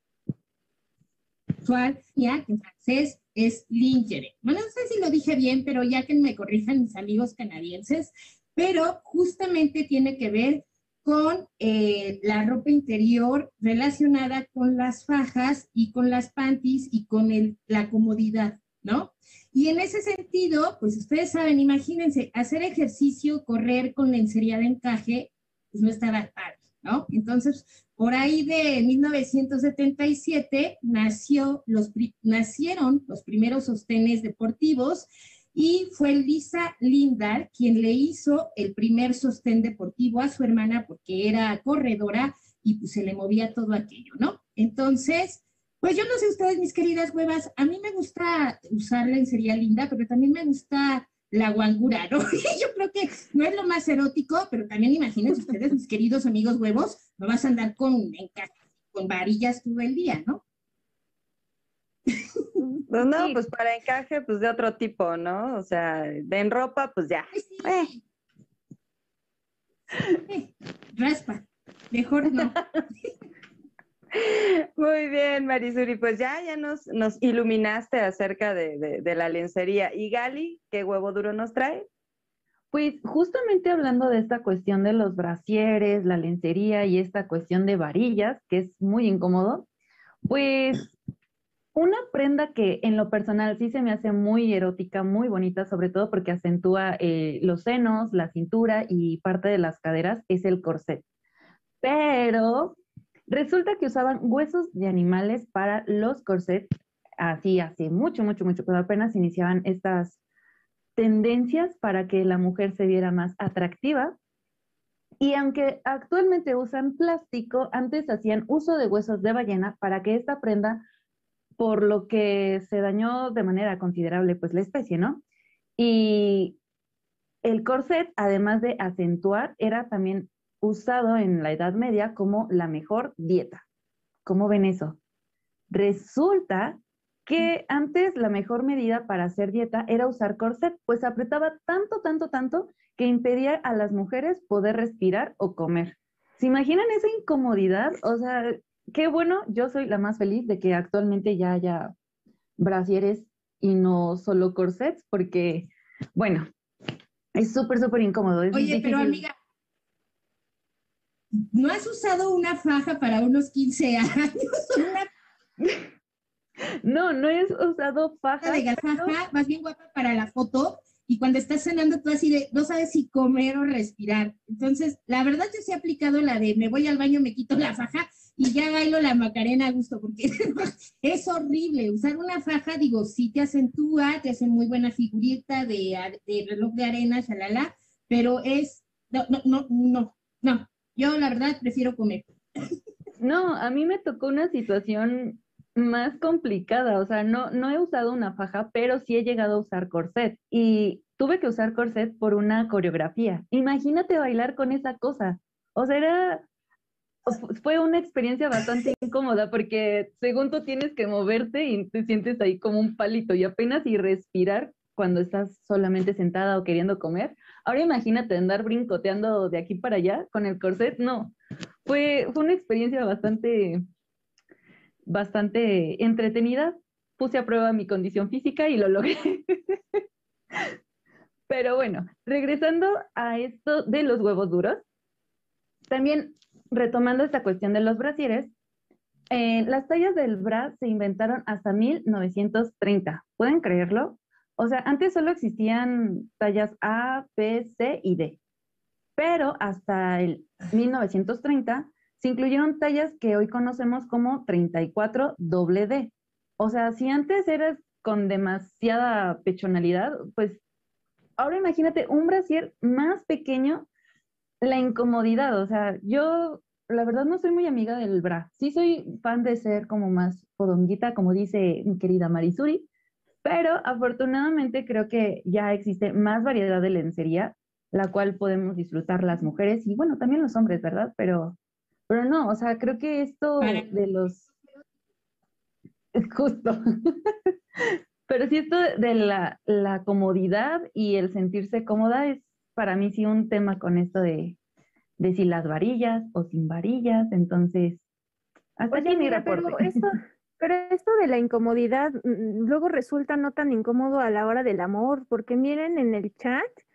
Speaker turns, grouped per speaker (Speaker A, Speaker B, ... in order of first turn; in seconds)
Speaker A: 1.6-60.4, 67.3-68.0, 70.3-72.6, 158.5-159.3, 161.5-165.1, 168.4-192.3, 283.6-284.4
Speaker B: 62.9-67.9, 74.2-81.9
Speaker C: 63.0-63.4, 82.7-89.7, 90.3-90.9, 91.8-101.0, 101.8-102.8, 103.3-106.7, 107.2-110.2, 111.0-114.2, 115.2-120.8, 121.6-125.2, 125.8-126.6, 127.4-133.6, 134.2-135.0, 135.7-151.9, 152.6-156.5, 157.4-159.2, 166.8-169.2, 193.2-206.4, 207.3-221.3, 221.9-223.8, 225.1-229.8, 231.5-234.8, 235.9-238.5, 239.3-248.4, 249.2-260.6, 261.4-263.9, 264.6-272.9, 273.4-281.6, 282.1-284.4, 286.2-287.2, 288.3-294.6, 295.2-298.0, 298.8-299.9
Speaker D: 298.9-306.7